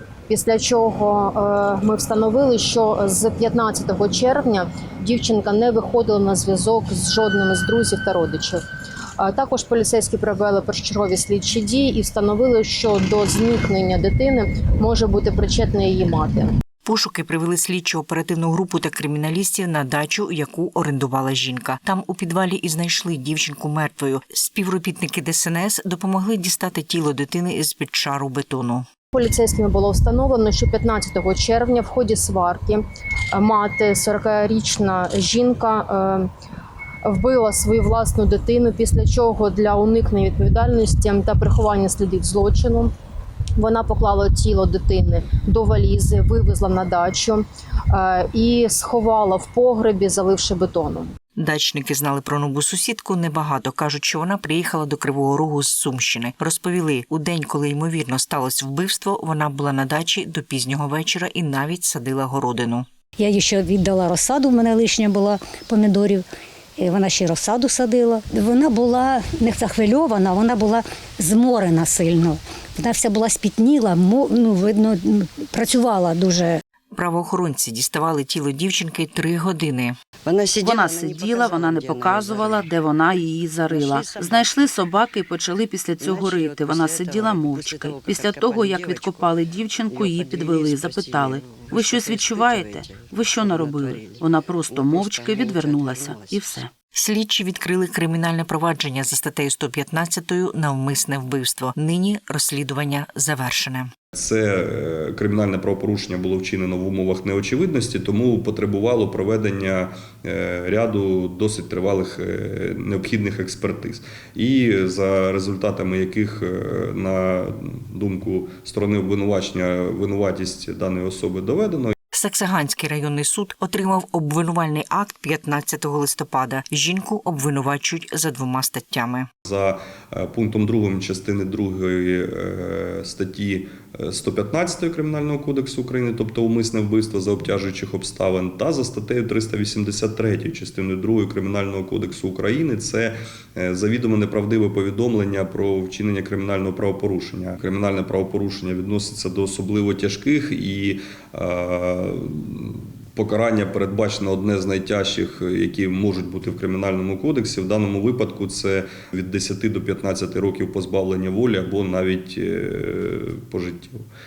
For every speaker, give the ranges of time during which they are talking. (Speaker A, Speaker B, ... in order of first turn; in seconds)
Speaker A: 0.3-8.6, 9.2-16.5, 29.1-36.3, 37.1-42.9, 43.6-51.1
Speaker B: 16.9-28.9, 51.4-62.9, 76.9-80.0, 97.0-103.9, 122.1-129.3
Speaker C: 63.2-66.2, 66.8-76.6
Speaker D: 80.3-82.7, 83.6-84.7, 86.0-96.7
Speaker E: 80.6-96.7
Speaker F: 104.2-121.9, 129.5-164.0